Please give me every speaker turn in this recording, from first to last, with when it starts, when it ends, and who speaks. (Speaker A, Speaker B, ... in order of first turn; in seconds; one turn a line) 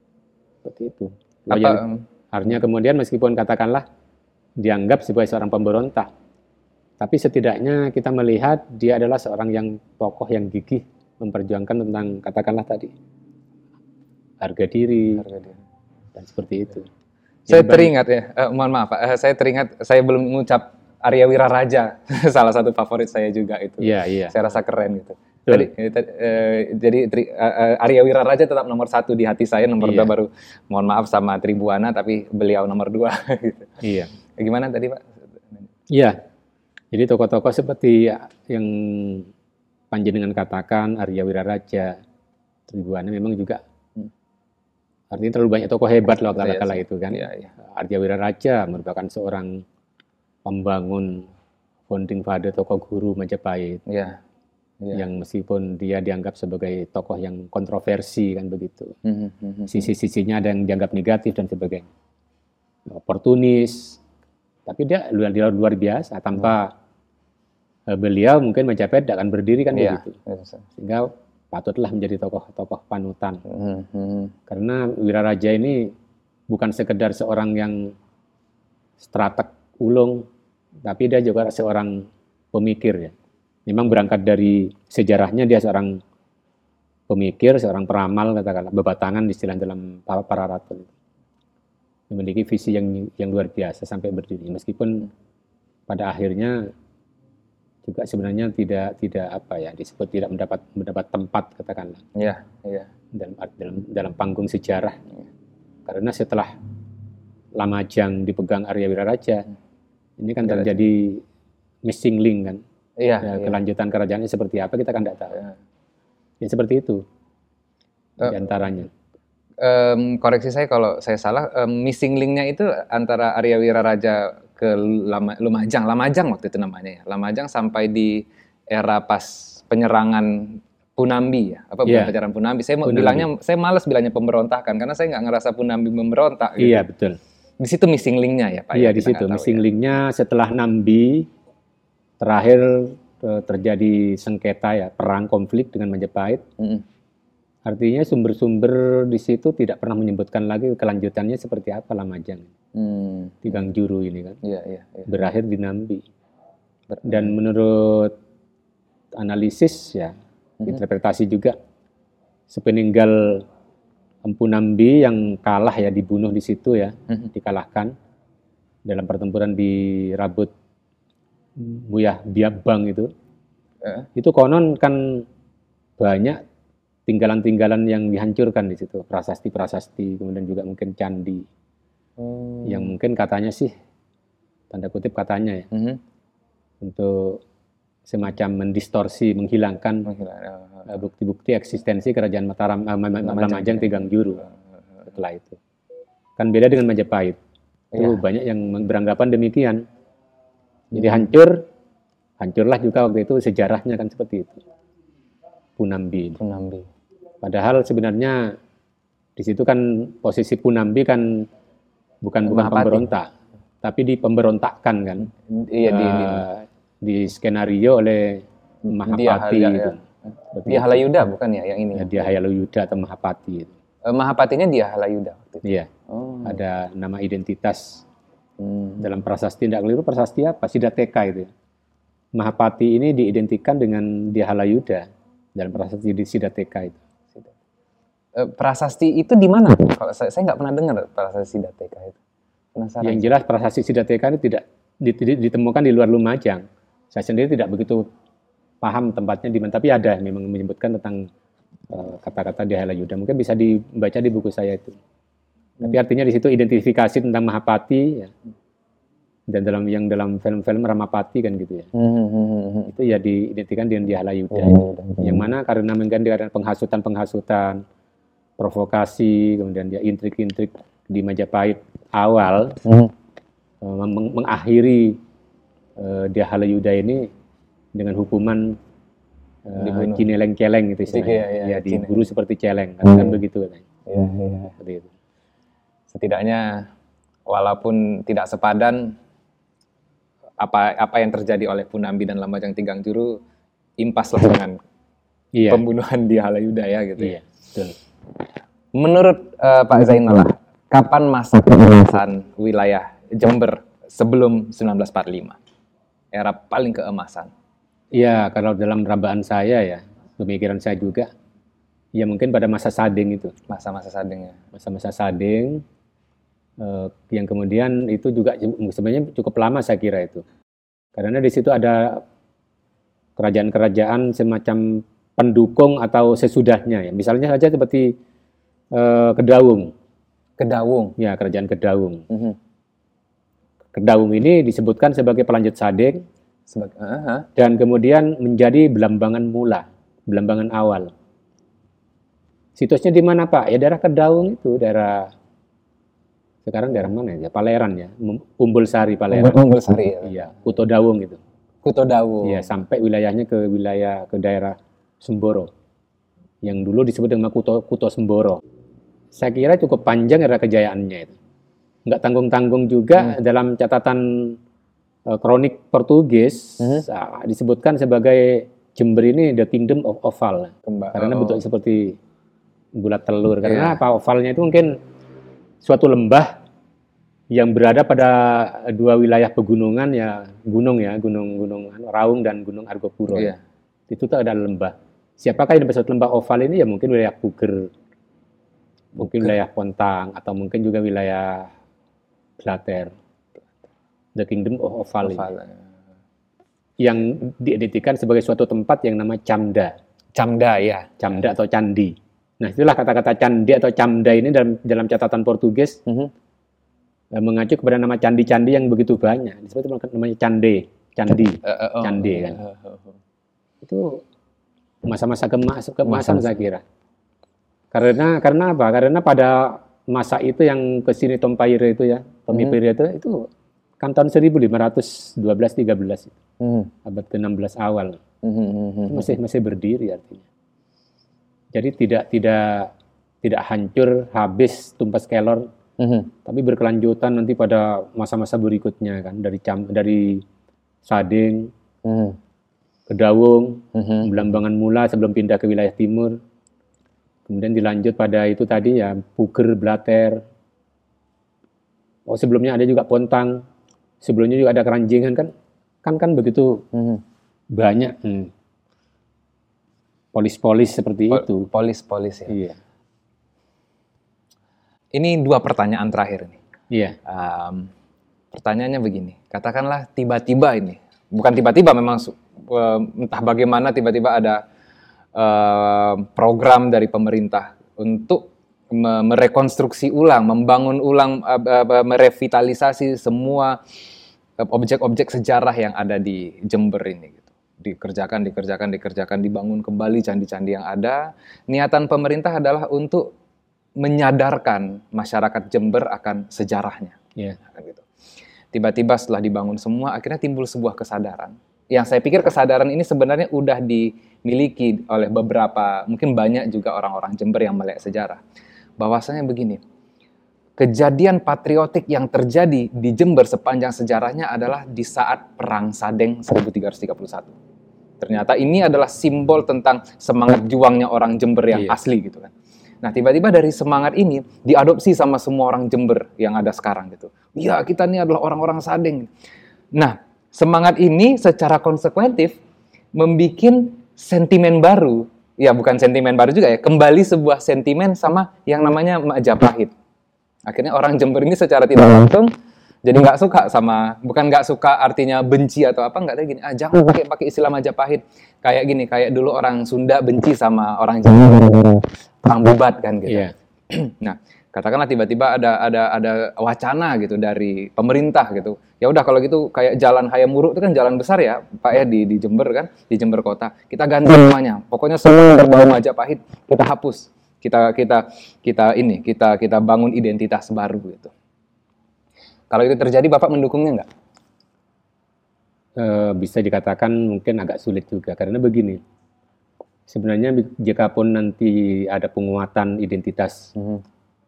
Speaker A: 0.6-3.8
Speaker B: 1.5-2.0
Speaker A: 4.6-6.1
Speaker A: 7.0-12.9
Speaker A: 14.4-15.2
Speaker B: 15.2-15.6
Speaker A: 16.1-16.9
Speaker A: 17.5-17.9
Speaker B: 17.5-35.7
Speaker A: 23.8-24.4
Speaker A: 29.8-30.1
Speaker A: 33.8-34.1
Speaker A: 35.9-36.2
Speaker A: 36.9-39.3
Speaker A: 39.9-42.0
Speaker A: 42.7-43.6
Speaker A: 45.1-49.6
Speaker B: 46.4-47.5
Speaker A: 50.5-51.3
Speaker A: 51.9-53.8
Speaker B: 53.9-54.2
Speaker B: 54.8-55.1
Speaker A: 54.9-59.0
Speaker B: 59.0-59.9
Speaker A: 59.7-61.9
Speaker A: 62.9-64.0
Speaker A: 64.7-66.7
Speaker A: 67.9-70.2
Speaker B: 69.7-70.7
Speaker A: 70.8-73.4
Speaker B: 73.5-74.3
Speaker A: 74.5-75.9
Speaker A: 76.5-77.9
Speaker A: 79.0-80.2
Speaker A: 80.8-83.1
Speaker A: 83.7-86.0
Speaker A: 87.1-90.9
Speaker A: 92.1-95.1
Speaker A: 95.9-96.7
Speaker A: 97.8-102.0
Speaker B: 102.2-102.9
Speaker A: 103.1-105.0
Speaker A: 105.9-106.5
Speaker A: 107.6-109.5
Speaker A: 110.2-111.2
Speaker B: 110.4-110.8
Speaker A: 111.8-112.6
Speaker B: 113.0-113.6
Speaker A: 113.2-115.4
Speaker A: 116.4-117.0
Speaker A: 118.2-118.9
Speaker B: 119.6-136.9
Speaker A: 131.8-132.1
Speaker A: 132.8-133.3
Speaker A: 136.6-137.2
Speaker B: 137.6-139.6
Speaker A: 138.7-141.3
Speaker A: 142.2-146.4
Speaker A: 147.7-152.5
Speaker B: 152.8-153.6
Speaker A: 153.4-154.4
Speaker B: 154.4-155.2
Speaker A: 155.1-156.1
Speaker B: 156.9-157.3
Speaker A: 157.0-158.2
Speaker A: 159.2-161.6
Speaker A: 162.5-163.4
Speaker A: 164.2-167.9
Speaker A: 168.9-170.5
Speaker A: 171.6-173.1
Speaker B: 173.8-174.1
Speaker A: 174.2-175.2
Speaker A: 176.0-176.4
Speaker A: 177.1-181.5
Speaker B: 182.2-182.9
Speaker A: 182.7-183.7
Speaker A: 184.7-185.7
Speaker B: 185.7-186.0
Speaker A: 186.8-187.4
Speaker A: 188.1-190.1
Speaker B: 190.1-190.9
Speaker A: 190.9-194.4
Speaker B: 193.2-194.5
Speaker A: 195.1-195.6
Speaker A: 196.4-197.4
Speaker B: 197.9-198.2
Speaker A: 197.9-199.8
Speaker A: 200.9-201.6
Speaker A: 202.4-204.6
Speaker A: 205.8-206.4
Speaker B: 206.4-206.9
Speaker A: 207.4-208.6
Speaker A: 209.4-211.5
Speaker A: 212.2-213.3
Speaker B: 212.5-213.1
Speaker A: 213.8-215.3
Speaker B: 215.4-216.5
Speaker A: 215.9-220.0
Speaker B: 218.9-220.0
Speaker A: 220.5-221.1
Speaker B: 220.7-222.2
Speaker A: 221.9-223.7
Speaker B: 224.1-226.6
Speaker A: 225.6-225.9
Speaker A: 226.4-228.1
Speaker B: 228.6-229.1
Speaker A: 229.0-231.5
Speaker A: 232.3-237.0
Speaker B: 238.4-242.2
Speaker B: 242.8-243.3
Speaker A: 243.0-248.1
Speaker A: 248.8-251.3
Speaker A: 251.9-255.0
Speaker A: 255.8-258.3
Speaker A: 259.5-261.9
Speaker B: 261.9-262.9
Speaker A: 262.9-267.8
Speaker B: 264.5-265.5
Speaker A: 268.6-272.8
Speaker B: 272.9-273.1
Speaker A: 273.8-275.2
Speaker A: 276.0-277.3
Speaker A: 277.9-278.8
Speaker A: 279.7-283.9
Speaker B: 279.8-280.3
Speaker B: 281.1-282.3
Speaker B: 283.1-283.4
Speaker B: 284.1-284.8
Speaker A: 284.8-285.1
Speaker B: 286.1-286.9
Speaker B: 287.5-289.2
Speaker B: 290.6-293.4
Speaker B: 294.0-294.8
Speaker A: 295.5-295.8
Speaker B: 295.7-297.4
Speaker A: 297.2-298.0
Speaker B: 298.9-305.6
Speaker B: 306.3-307.5
Speaker A: 308.1-311.3
Speaker A: 312.2-313.5
Speaker B: 313.7-314.6
Speaker A: 314.7-315.8
Speaker A: 316.8-320.4
Speaker A: 321.2-322.2
Speaker A: 323.4-328.2
Speaker A: 328.9-329.9
Speaker B: 330.6-331.1
Speaker A: 331.2-332.2
Speaker B: 332.3-332.6
Speaker A: 333.9-336.2
Speaker B: 336.7-337.5
Speaker A: 337.6-341.1
Speaker A: 342.8-345.3
Speaker A: 346.6-349.6
Speaker B: 349.3-350.4
Speaker A: 350.2-351.4
Speaker B: 351.8-352.7
Speaker A: 352.4-355.7
Speaker A: 356.6-358.6
Speaker A: 359.3-361.4
Speaker A: 362.1-364.6
Speaker A: 365.3-372.2
Speaker B: 370.9-371.6
Speaker A: 373.0-375.0
Speaker B: 373.6-374.0
Speaker A: 375.8-376.6
Speaker A: 377.5-383.6
Speaker A: 384.1-387.9
Speaker A: 389.2-391.7
Speaker B: 389.2-389.5
Speaker A: 392.6-393.1
Speaker A: 394.4-395.5
Speaker B: 395.2-395.9
Speaker A: 397.0-399.9
Speaker B: 400.4-401.2
Speaker A: 401.2-406.0
Speaker A: 407.3-412.6
Speaker B: 411.6-413.1
Speaker A: 413.8-414.2
Speaker A: 415.0-416.8
Speaker B: 416.1-416.6
Speaker A: 417.9-423.5
Speaker A: 424.0-426.4
Speaker B: 426.6-426.9
Speaker A: 427.1-428.2
Speaker B: 428.4-429.4
Speaker A: 429.1-430.4
Speaker A: 431.7-432.9
Speaker A: 433.4-435.7
Speaker B: 436.0-436.3
Speaker A: 436.4-440.4
Speaker A: 441.1-441.7
Speaker B: 442.1-442.4
Speaker A: 443.1-446.4
Speaker B: 443.9-444.3
Speaker A: 447.5-450.4
Speaker A: 452.3-453.6
Speaker A: 454.2-455.5
Speaker A: 456.0-456.8
Speaker B: 456.9-457.2
Speaker A: 457.7-458.5
Speaker A: 460.3-461.7
Speaker B: 461.3-462.6
Speaker A: 462.5-462.8
Speaker B: 465.1-466.6
Speaker A: 466.9-467.2
Speaker B: 467.2-467.9
Speaker B: 468.5-474.6
Speaker B: 475.4-483.8
Speaker B: 484.6-493.3
Speaker B: 494.0-498.1
Speaker B: 498.7-508.4
Speaker B: 509.0-509.8
Speaker B: 510.8-517.5
Speaker B: 518.2-522.5
Speaker A: 521.7-522.0
Speaker B: 523.0-529.3
Speaker B: 529.9-532.6
Speaker B: 533.1-539.9
Speaker B: 540.7-542.5
Speaker B: 543.0-571.3
Speaker A: 553.3-553.5
Speaker B: 572.7-574.1
Speaker A: 576.0-579.0
Speaker A: 580.1-583.7
Speaker B: 583.8-584.0